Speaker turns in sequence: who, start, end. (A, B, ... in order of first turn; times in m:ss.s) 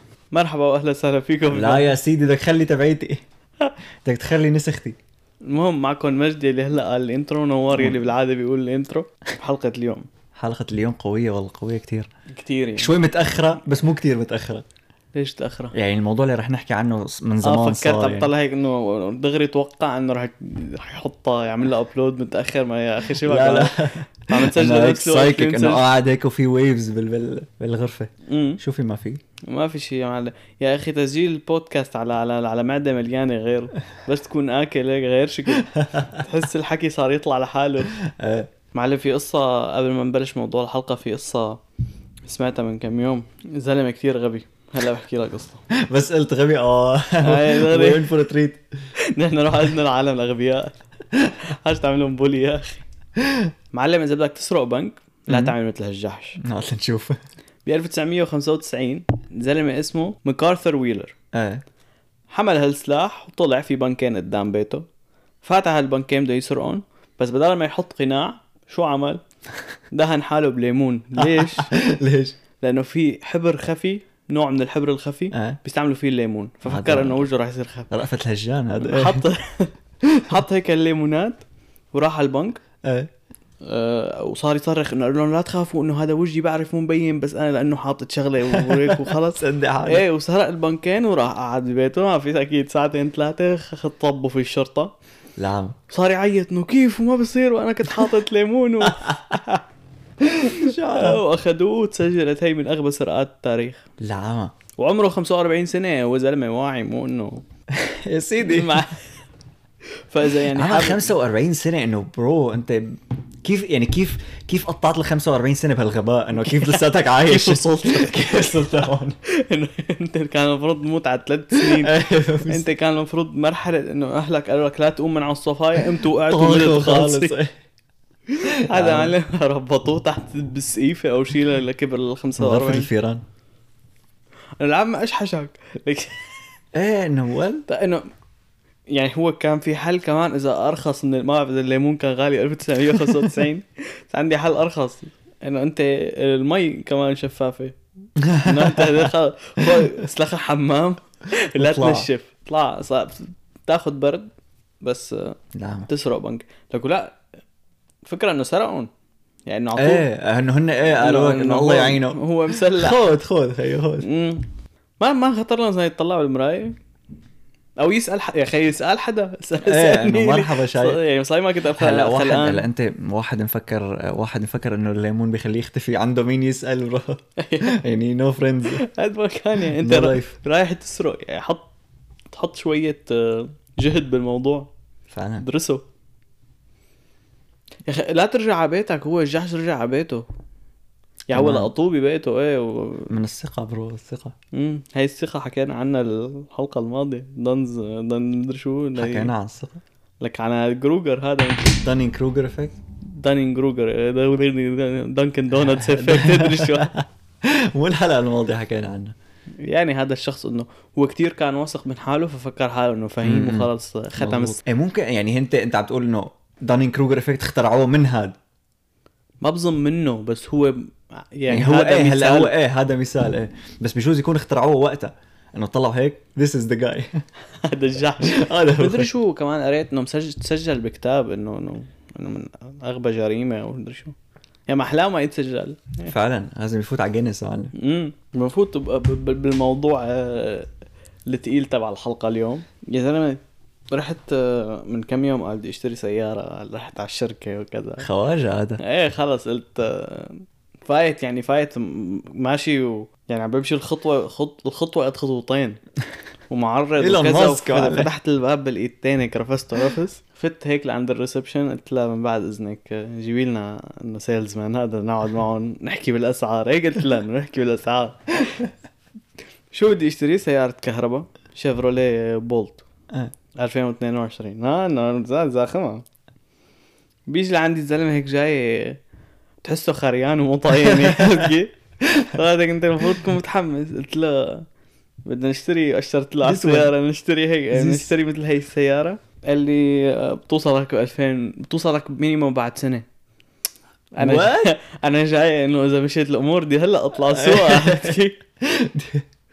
0:00.3-0:02.0 A
0:01.5-0:03.2 B
0:04.0-0:05.0 B
0:05.4-0:10.1 A
0:07.8-0:08.0 B
0:10.4-0:12.1 B
0:12.3-0:12.9 A
0:12.8-0:14.6 B
0:15.1-0:15.7 A
0:15.7-0:18.3 B
0:17.4-0:25.8 A
0:23.2-0:29.2 B
0:28.3-0:28.6 A
0:29.4-0:37.9 A
0:35.6-0:36.2 B
0:38.0-0:38.5 B
0:38.7-0:41.6 A
0:42.3-0:45.6 A
0:45.7-0:48.6 B
0:47.2-0:48.1 A
0:49.0-0:50.8 A
0:51.4-0:52.8 A
0:53.2-0:53.5 B
0:53.7-0:56.4 A
0:55.3-0:55.5 B
0:56.4-0:57.2 B
0:57.6-1:01.1 A
1:01.3-1:01.6 B
1:02.3-1:04.8 A
1:05.4-1:09.2 A
1:09.9-1:11.7 A
1:11.2-1:12.4 B
1:12.6-1:17.9 A
1:15.3-1:15.6 B
1:16.6-1:17.3 B
1:17.9-1:19.2 B
1:18.8-1:19.7 A
1:20.1-1:20.3 B
1:20.2-1:21.4 A
1:21.9-1:22.6 A
1:22.8-1:23.1 B
1:23.6-1:34.9 A
1:28.5-1:30.0 B
1:35.4-1:35.8 B
1:35.9-1:39.6 A
1:38.9-1:39.4 B
1:40.2-1:41.2 B
1:40.5-1:43.8 A
1:44.0-1:44.5 B
1:44.8-1:47.4 A
1:47.7-1:48.8 B
1:48.4-1:49.0 A
1:50.0-1:51.1 A
1:50.5-1:59.2 B
1:56.4-2:07.4 A
2:01.5-2:02.7 B
2:06.2-2:07.5 B
2:08.3-2:12.9 A
2:08.4-2:09.1 B
2:12.4-2:13.2 B
2:14.6-2:16.3 A
2:16.7-2:17.7 B
2:17.7-2:18.1 A
2:18.9-2:27.8 A
2:28.2-2:29.8 B
2:28.4-2:34.3 A
2:31.6-2:32.1 B
2:34.8-2:37.2 A
2:35.5-2:35.9 B
2:38.0-2:38.9 A
2:39.5-2:40.1 A
2:39.8-2:44.1 B
2:40.9-2:43.0 A
2:44.0-2:44.5 A
2:45.0-2:46.8 A
2:47.8-2:52.7 A
2:49.6-2:51.0 B
2:51.8-2:58.8 B
2:57.4-2:57.8 A
2:58.8-3:01.7 A
2:59.8-3:00.4 B
3:02.3-3:04.7 A
3:05.1-3:05.5 B
3:05.4-3:05.8 A
3:07.8-3:10.2 A
3:11.3-3:13.1 A
3:11.3-3:11.7 B
3:13.1-3:14.4 B
3:14.5-3:19.3 A
3:19.0-3:19.8 B
3:20.2-3:21.8 A
3:21.8-3:22.8 B
3:23.1-3:26.9 A
3:25.5-3:29.2 B
3:29.6-3:34.6 A
3:33.2-3:38.4 B
3:39.4-3:42.5 A
3:41.5-3:47.2 B
3:47.6-3:54.2 A
3:48.2-3:49.1 B
3:54.7-3:56.1 A
3:56.1-3:57.7 B
3:57.8-4:00.7 A
4:01.3-4:08.1 A
4:08.0-4:08.8 B
4:08.8-4:15.8 A
4:16.5-4:28.6 A
4:17.0-4:18.1 B
4:29.7-4:32.8 A
4:33.6-4:36.0 A
4:37.3-4:39.0 A
4:39.6-4:41.7 A
4:40.8-4:41.5 B
4:42.1-4:42.4 B
4:42.2-4:44.7 A
4:45.3-4:53.1 A
4:46.4-4:46.9 B
4:47.7-4:48.1 B
4:54.2-4:58.4 A
4:54.2-4:54.7 B
4:57.3-4:59.2 B